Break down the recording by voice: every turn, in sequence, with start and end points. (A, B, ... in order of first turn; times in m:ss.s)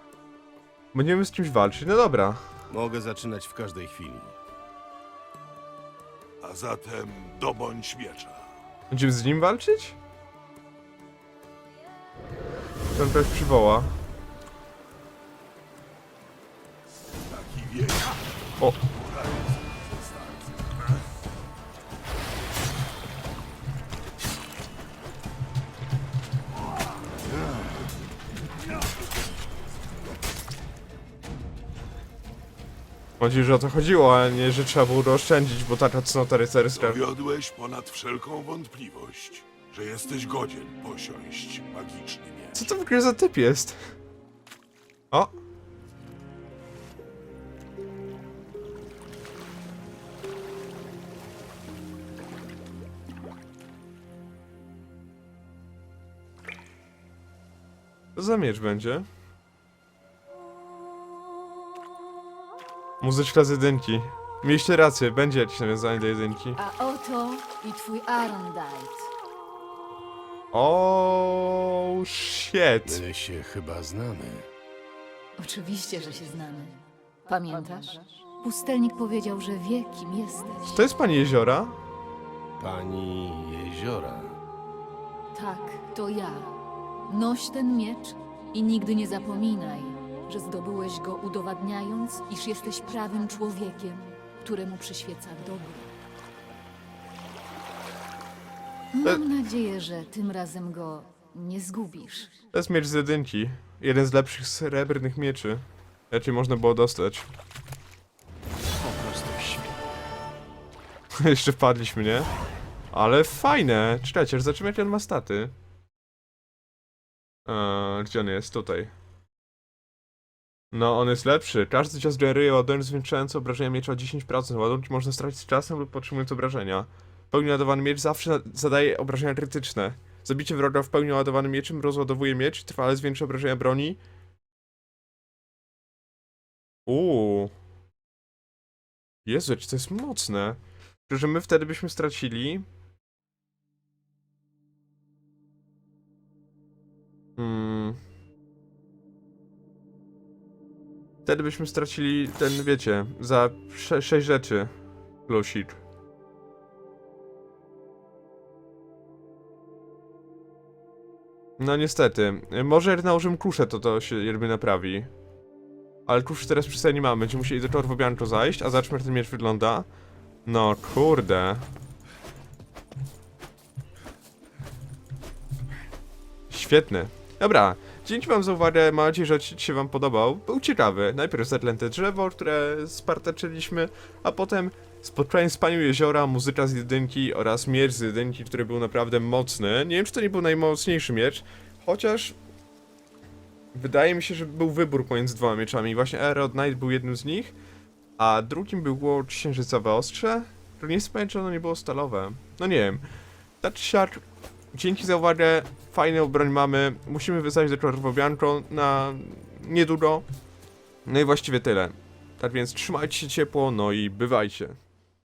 0:00.9-0:02.4 A
0:02.7-0:04.4 B
0:06.4-0:08.5 C
0:08.9-0:10.0 A
0:12.9-0:13.9 A
0:17.2-0:21.0 C
0:28.7-0:29.4 C
0:33.2-0:37.0 A
0:36.7-0:42.7 C
0:42.6-0:43.8 A
0:58.2-0:59.1 A
1:03.0-1:06.6 A
1:06.6-1:09.1 D
1:10.5-1:13.0 A
1:12.8-1:14.5 B
1:15.4-1:20.8 D
1:20.7-1:21.8 A
1:22.6-1:24.4 B
1:25.3-1:26.6 D
1:27.1-1:35.9 D
1:38.9-1:42.3 D
1:42.5-1:47.3 A
1:48.6-1:49.9 B
1:51.2-1:52.3 A
1:52.9-1:55.5 A
1:57.5-1:58.9 A
2:00.7-2:14.0 A
2:16.9-2:17.5 A
2:19.3-2:22.7 A
2:27.4-2:28.0 A
2:31.3-2:34.7 A
2:35.3-2:35.8 A
2:41.6-2:45.1 A
2:46.1-2:49.9 A
2:50.5-2:51.6 A
2:56.5-3:12.4 A
3:13.7-3:17.5 A
3:18.2-3:23.0 A
3:23.6-3:24.2 A
3:24.7-3:30.2 A
3:31.1-3:34.8 A